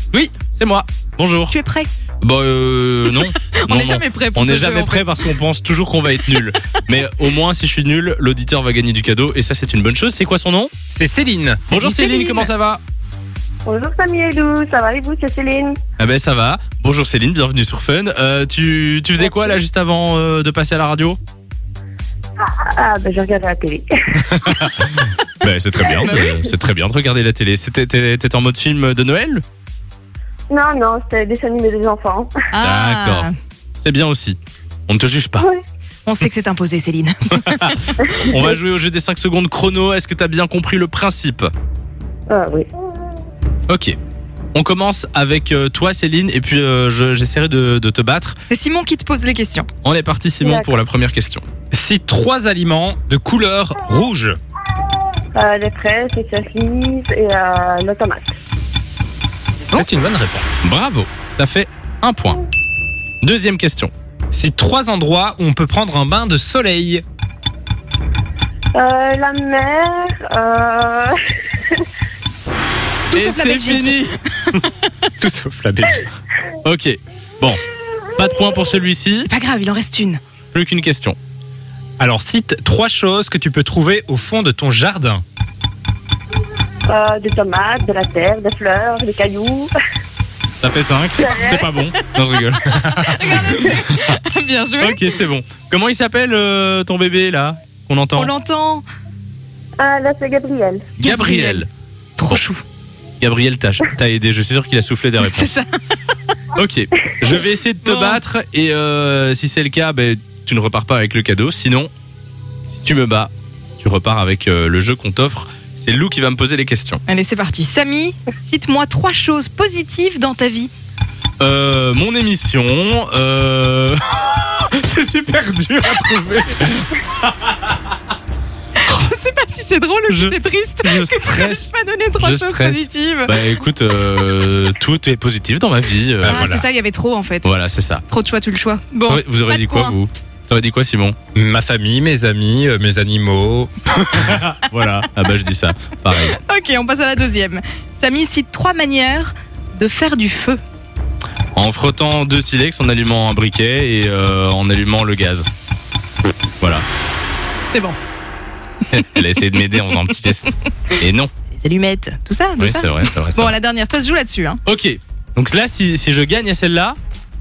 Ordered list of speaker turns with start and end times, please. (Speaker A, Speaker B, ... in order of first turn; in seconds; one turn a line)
Speaker A: 0.1-1.6
Speaker B: 1.5-1.9
Speaker A: 2.2-10.7
Speaker B: 3.1-5.3
Speaker C: 10.9-11.6
Speaker A: 11.7-12.8
Speaker B: 11.7-12.5
Speaker D: 13.7-15.8
Speaker A: 16.0-21.2
Speaker D: 22.4-24.6
Speaker A: 24.3-29.4
Speaker B: 25.9-26.5
Speaker D: 30.5-32.3
Speaker B: 32.5-33.3
Speaker A: 32.6-34.4
Speaker A: 34.9-35.5
Speaker B: 36.0-38.0
Speaker A: 37.3-41.5
Speaker D: 38.1-38.4
Speaker D: 42.3-42.7
Speaker A: 43.7-44.0
Speaker A: 44.5-48.4
Speaker B: 48.5-49.7
Speaker A: 49.8-51.4
Speaker D: 50.4-50.7
Speaker C: 51.7-54.4
Speaker D: 55.3-58.3
Speaker C: 59.7-60.5
Speaker A: 60.6-62.4
Speaker A: 63.2-63.9
Speaker C: 64.3-67.0
Speaker D: 68.7-71.2
Speaker B: 73.1-74.0
Speaker A: 73.1-74.7
Speaker C: 75.2-76.1
Speaker A: 76.6-77.6
Speaker A: 78.1-79.3
Speaker B: 79.3-80.2
Speaker A: 80.5-81.2
Speaker C: 82.0-85.2
Speaker D: 86.9-89.7
Speaker A: 90.6-94.0
Speaker D: 91.2-91.7
Speaker B: 92.6-95.0
Speaker A: 94.8-98.3
Speaker B: 98.2-98.8
Speaker D: 99.8-100.9
Speaker B: 101.0-101.7
Speaker A: 101.0-101.7
Speaker B: 102.2-102.6
Speaker A: 103.2-105.6
Speaker B: 105.2-105.7
Speaker A: 106.5-111.9
Speaker B: 107.8-108.2
Speaker A: 112.7-117.0
Speaker B: 117.1-120.7
Speaker A: 121.4-127.5
Speaker B: 128.8-133.4
Speaker A: 130.1-136.5
Speaker C: 136.2-136.6
Speaker B: 136.2-137.5
Speaker A: 137.4-138.0
Speaker B: 138.1-139.9
Speaker A: 139.1-141.2
Speaker C: 141.3-144.3
Speaker A: 144.1-146.4
Speaker B: 146.1-150.6
Speaker A: 151.5-155.4
Speaker B: 157.7-158.0
Speaker A: 158.9-161.3
Speaker B: 161.5-164.6
Speaker A: 162.6-163.5
Speaker A: 164.7-167.0